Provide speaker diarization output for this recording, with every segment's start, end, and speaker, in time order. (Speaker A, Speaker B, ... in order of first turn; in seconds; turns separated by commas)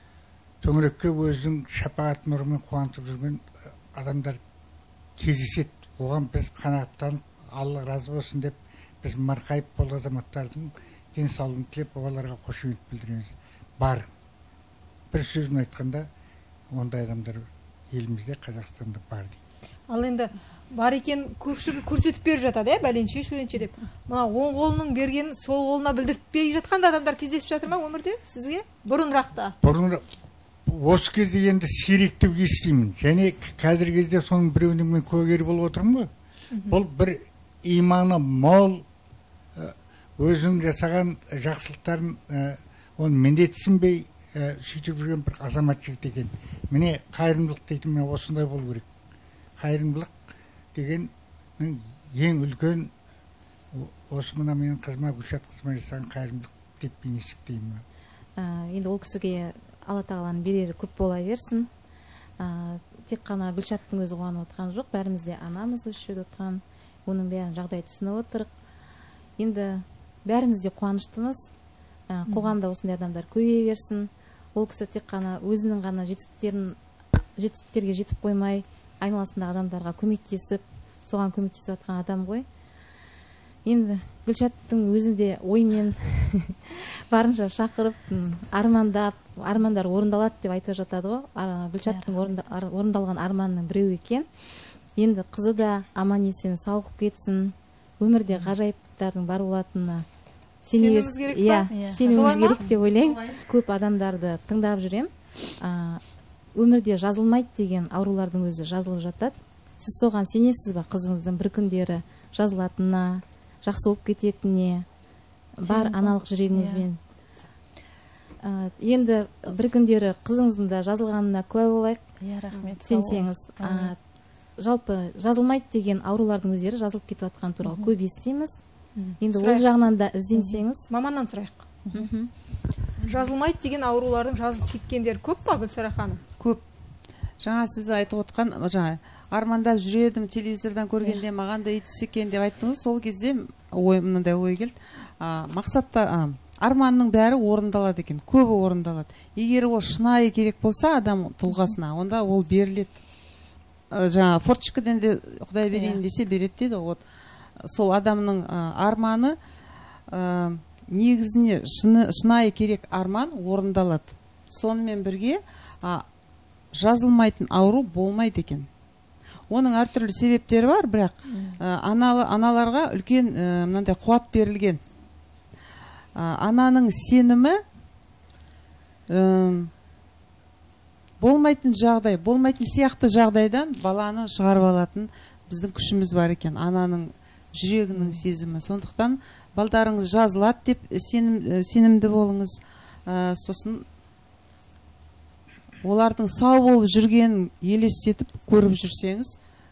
Speaker A: 0.6-4.4, Speaker A: 5.2-14.1, Speaker A: 15.1-16.1, Speaker A: 16.7-19.4, Speaker B: 19.9-29.5, Speaker A: 29.6-30.0, Speaker A: 30.6-36.1, Speaker B: 36.5-36.8, Speaker A: 36.7-38.9, Speaker A: 39.5-48.9, Speaker A: 49.6-50.1, Speaker A: 50.7-52.9, Speaker A: 53.7-57.8, Speaker C: 58.4-61.7, Speaker C: 62.4-68.5, Speaker C: 69.4-71.5, Speaker C: 72.1-76.8, Speaker B: 72.3-72.5, Speaker C: 77.4-82.5, Speaker C: 83.6-94.3, Speaker D: 91.8-92.2, Speaker C: 95.0-100.0, Speaker C: 100.6-106.0, Speaker B: 100.7-102.6, Speaker D: 101.7-102.3, Speaker C: 106.5-114.8, Speaker C: 115.6-117.0, Speaker D: 115.6-116.9, Speaker C: 118.4-122.0, Speaker D: 122.2-123.9, Speaker C: 122.8-124.0, Speaker C: 124.6-128.6, Speaker D: 127.6-127.9, Speaker B: 128.9-129.6, Speaker C: 129.2-130.9, Speaker D: 130.3-130.6, Speaker B: 130.9-131.7, Speaker D: 131.8-132.1, Speaker C: 131.9-132.3, Speaker B: 133.0-136.2, Speaker E: 137.4-153.0, Speaker E: 153.9-157.0, Speaker D: 155.7-156.0, Speaker E: 157.6-159.4, Speaker E: 160.1-166.0, Speaker E: 166.7-168.7, Speaker E: 169.5-174.8, Speaker D: 171.3-171.6, Speaker E: 176.2-177.6, Speaker E: 179.1-179.7, Speaker E: 181.2-193.8, Speaker E: 195.8-199.3